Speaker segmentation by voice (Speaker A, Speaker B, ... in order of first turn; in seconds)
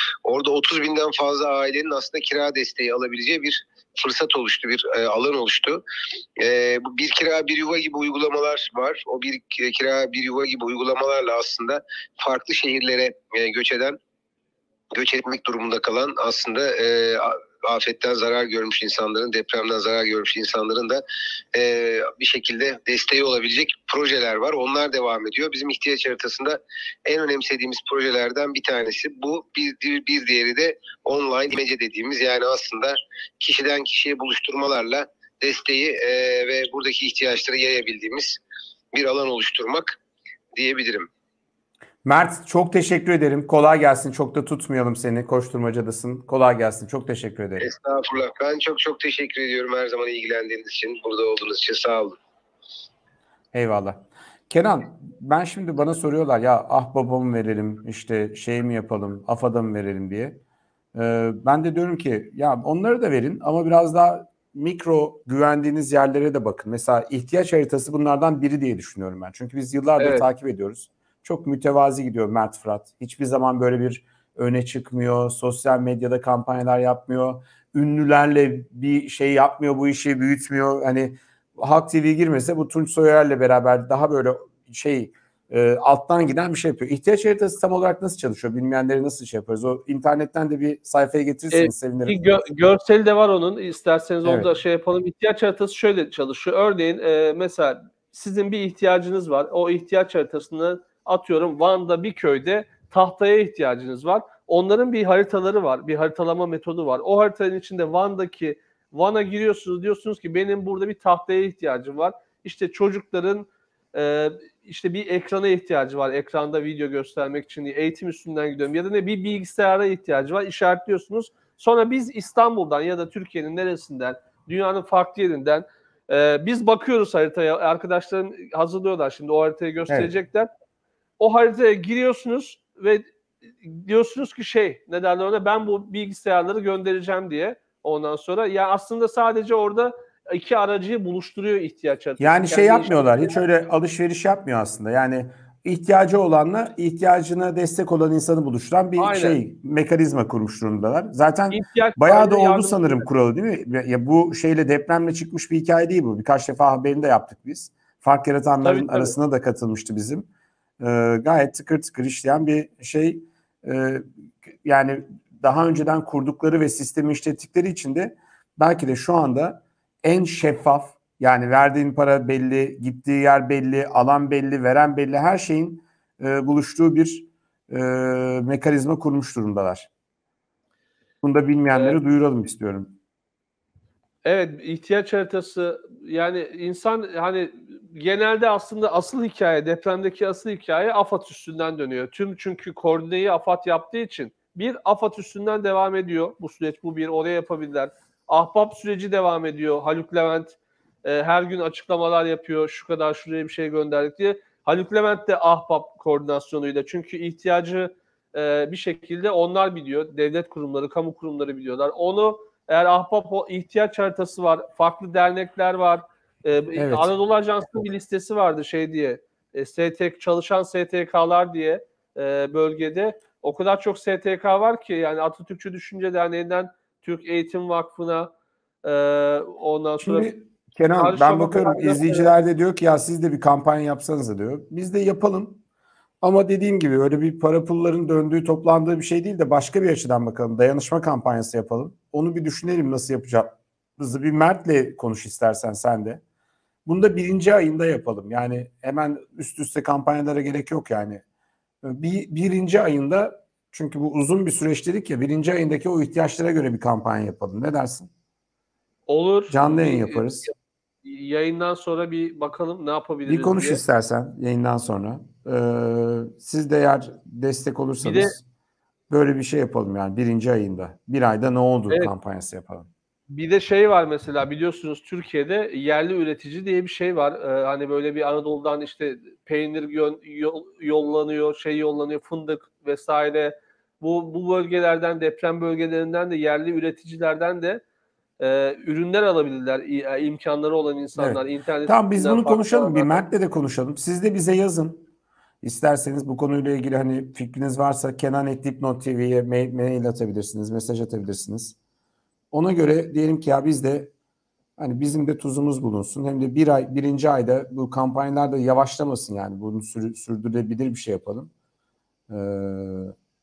Speaker A: 0.2-5.8, 6.4-14.0, 14.9-21.0, 21.5-38.4, 38.9-40.0, 40.5-41.1, 47.6-52.1
Speaker B: 42.0-47.7, 53.5-60.4, 60.9-92.2, 94.2-94.5, 142.2-160.3, 160.8-164.1, 164.6-179.9, 181.2-182.9, 216.8-217.1, 230.0-235.6, 236.2-246.2, 246.8-251.2, 251.8-258.1, 259.5-260.5, 263.2-268.4, 269.1-272.9, 291.1-295.1, 295.6-301.8, 302.5-304.1, 304.8-311.5, 312.3-313.1
Speaker C: 70.0-70.2, 91.5-130.5, 131.2-133.0, 133.6-143.4, 149.0-149.4, 151.5-153.1, 158.6-159.1, 181.7-182.0, 184.2-228.3, 228.8-230.3, 230.9-232.3, 259.1-260.3, 261.0-263.8, 268.0-268.3, 273.3-287.8, 288.4-293.2